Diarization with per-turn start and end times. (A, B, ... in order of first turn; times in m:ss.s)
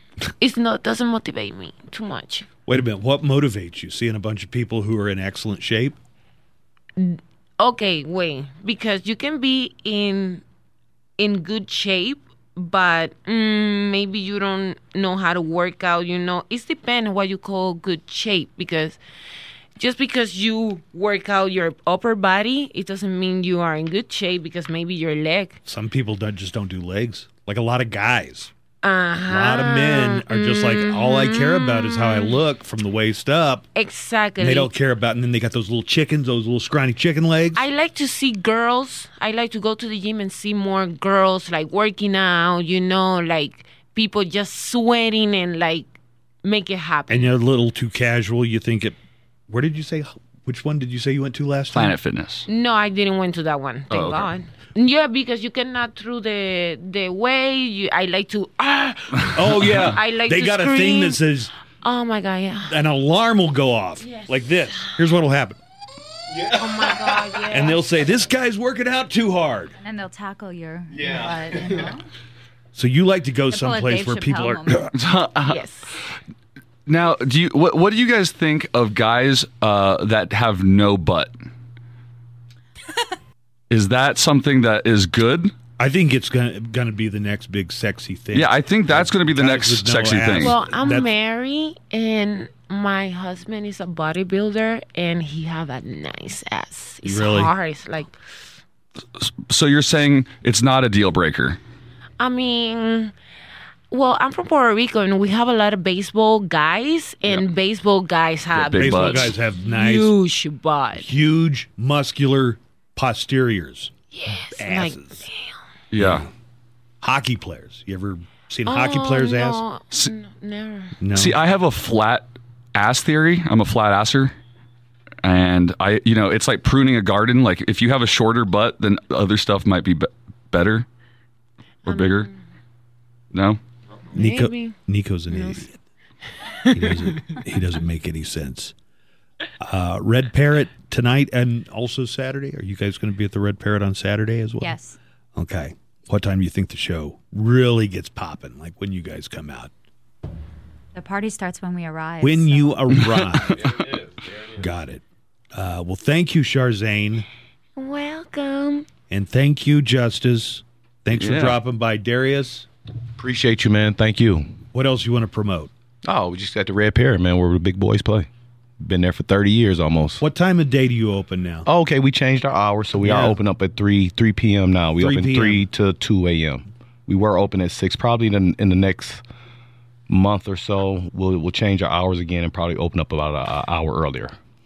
0:00.4-0:02.5 A
0:02.7-0:06.0 B
0:07.0-0:10.4 A
0:11.2-0:19.0 A
0:19.8-0:25.6 A
0:25.7-0:28.5 B
0:28.8-0:32.4 A
0:29.3-0:33.7 B
0:33.8-0:34.7 A
0:34.4-0:37.6 B
0:37.5-0:47.3 A
0:47.1-0:49.0 B
0:49.5-0:52.0 B
0:51.7-0:52.5 C
0:52.5-1:01.2 A
0:53.9-0:54.3 C
0:59.3-1:01.5 B
1:01.8-1:02.8 A
1:02.6-1:05.6 B
1:04.0-1:04.9 A
1:06.3-1:06.6 D
1:06.5-1:07.9 A
1:07.3-1:09.7 B
1:09.8-1:12.0 E
1:10.9-1:11.9 D
1:12.7-1:14.9 B
1:13.5-1:14.9 E
1:14.9-1:15.6 C
1:15.4-1:15.9 A
1:16.9-1:21.3 C
1:23.7-1:25.5 C
1:25.8-1:31.1 B
1:28.3-1:30.6 C
1:30.4-1:38.2 A
1:37.0-1:37.5 B
1:39.2-1:41.6 C
1:42.2-1:43.1 A
1:43.9-1:51.1 A
1:48.5-1:49.4 C
1:48.8-1:50.2 B
1:51.0-1:53.9 B
1:54.1-1:55.6 A
1:54.5-1:55.3 B
1:55.9-1:56.3 C
1:56.0-1:56.3 B
1:57.0-1:59.6 B
1:58.7-2:01.0 A
2:01.0-2:01.4 B
2:01.1-2:04.3 C
2:05.2-2:10.9 C
2:11.8-2:12.3 C
2:11.9-2:12.3 A
2:13.3-2:13.6 C
2:14.1-2:14.8 A
2:14.1-2:15.8 B
2:15.3-2:15.7 A
2:16.7-2:18.7 B
2:16.9-2:17.3 A
2:19.6-2:24.8 B
2:24.6-2:25.0 E
2:25.4-2:29.7 B
2:30.9-2:32.9 E
2:32.2-2:33.9 B
2:33.0-2:33.7 C
2:34.6-2:35.0 B
2:35.5-2:37.3 B
2:37.8-2:38.9 A
2:39.1-2:42.7 B
2:41.1-2:41.6 C
2:43.2-2:44.6 D
2:44.7-2:45.7 B
2:46.0-2:48.3 D
2:48.8-2:50.2 D
2:50.2-2:51.7 B
2:51.6-2:59.2 D
2:53.0-2:53.4 B
2:55.0-2:55.7 B
3:00.1-3:04.4 D